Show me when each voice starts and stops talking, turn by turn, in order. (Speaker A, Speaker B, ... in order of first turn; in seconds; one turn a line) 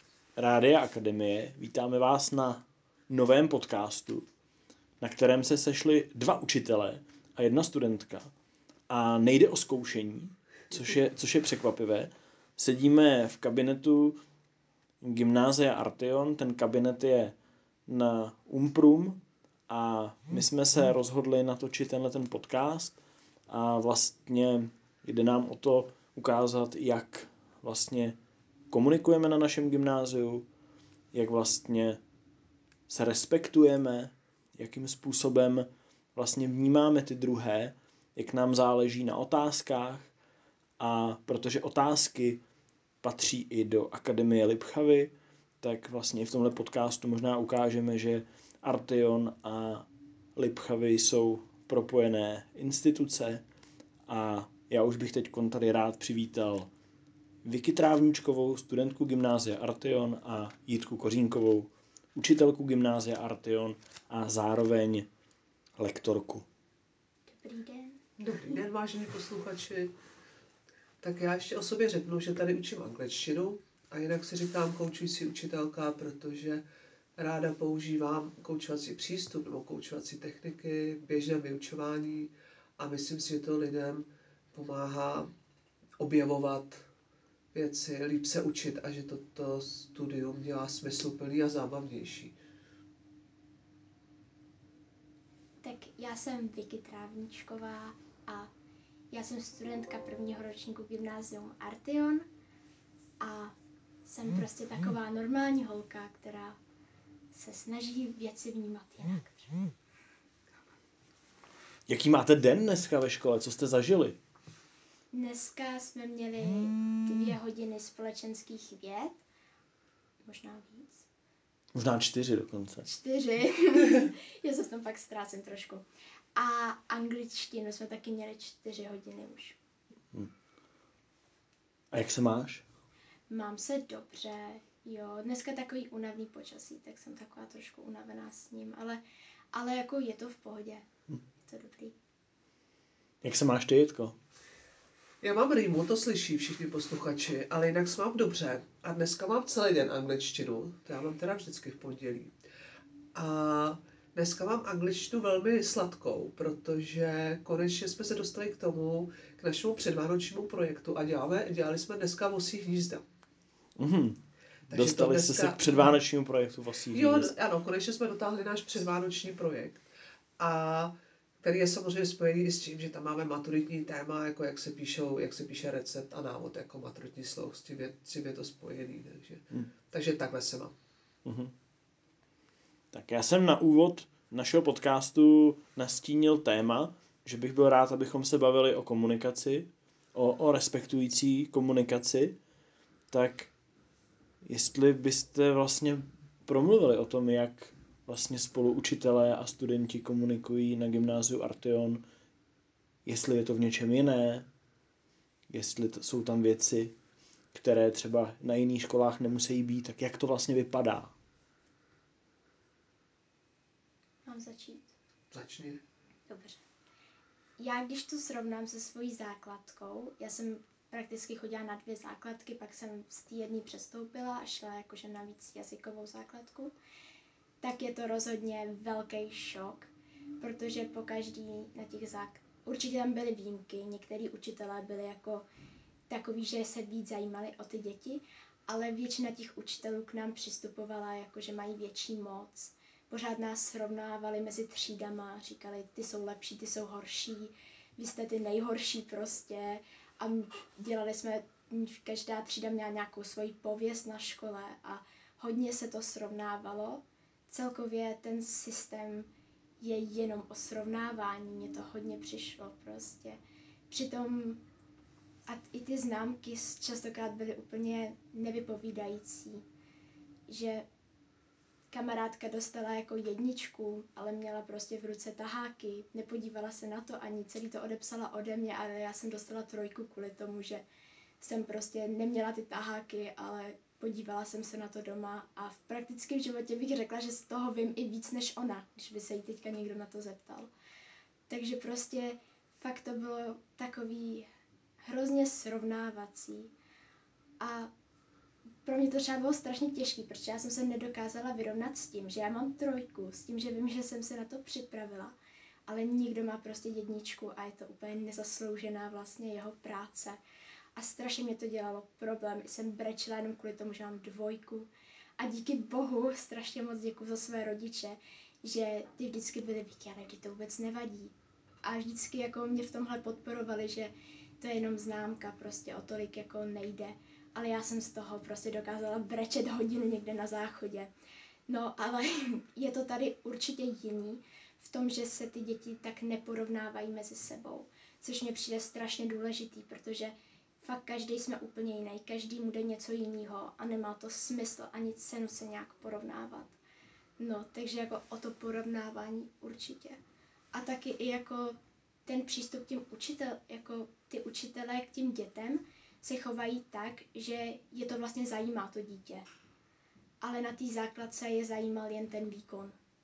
Speaker A: 0.4-4.2
Speaker A: 5.0-8.3
Speaker A: 8.9-14.2
Speaker A: 15.0-17.4
Speaker A: 17.9-23.0
Speaker A: 23.5-28.2
Speaker A: 28.7-30.5
Speaker A: 31.1-32.0
Speaker A: 32.9-40.1
Speaker A: 40.8-42.4
Speaker A: 43.0-53.4
Speaker A: 54.1-56.7
Speaker A: 57.4-65.1
Speaker A: 65.8-66.5
Speaker B: 67.3-68.0
Speaker C: 68.2-69.9
Speaker C: 71.0-76.6
Speaker C: 77.2-85.3
Speaker C: 86.0-86.9
Speaker C: 87.5-92.3
Speaker B: 95.6-98.5
Speaker B: 99.1-102.3
Speaker B: 103.2-103.5
Speaker B: 104.1-106.6
Speaker B: 107.3-109.5
Speaker A: 111.9-114.2
Speaker B: 115.1-119.2
Speaker B: 120.2-121.1
Speaker A: 121.8-122.9
Speaker B: 122.8-125.8
Speaker B: 126.4-129.6
Speaker A: 131.9-132.6
Speaker B: 133.3-139.0
Speaker B: 139.5-140.8
Speaker B: 141.5-141.9
Speaker A: 143.2-144.2
Speaker C: 145.2-152.3
Speaker C: 153.2-163.0
Speaker A: 163.8-167.3
Speaker C: 164.7-165.9
Speaker C: 166.9-169.8
Speaker C: 170.4-180.8
Speaker A: 181.2-181.5
Speaker A: 182.9-192.4
Speaker A: 193.1-193.5
Speaker A: 194.5-202.0
Speaker A: 203.1-204.5
Speaker A: 205.5-206.9
Speaker A: 207.5-211.1
Speaker B: 214.2-214.9
Speaker C: 215.3-215.8
Speaker B: 216.3-216.6
Speaker B: 217.6-226.7
Speaker B: 227.6-229.9
Speaker B: 230.4-235.4
Speaker B: 236.1-259.3
Speaker B: 259.8-263.4
Speaker B: 263.9-264.6
Speaker B: 265.5-269.6
Speaker B: 270.5-270.9
Speaker B: 271.9-280.8
Speaker B: 281.4-290.7
Speaker B: 291.5-294.5
Speaker B: 295.1-296.7
Speaker B: 297.6-297.9
Speaker B: 298.9-305.3
Speaker B: 305.9-310.4
Speaker B: 311.0-331.1
Speaker B: 331.7-346.7
Speaker B: 347.4-350.2
Speaker B: 350.7-359.5
Speaker B: 360.4-362.9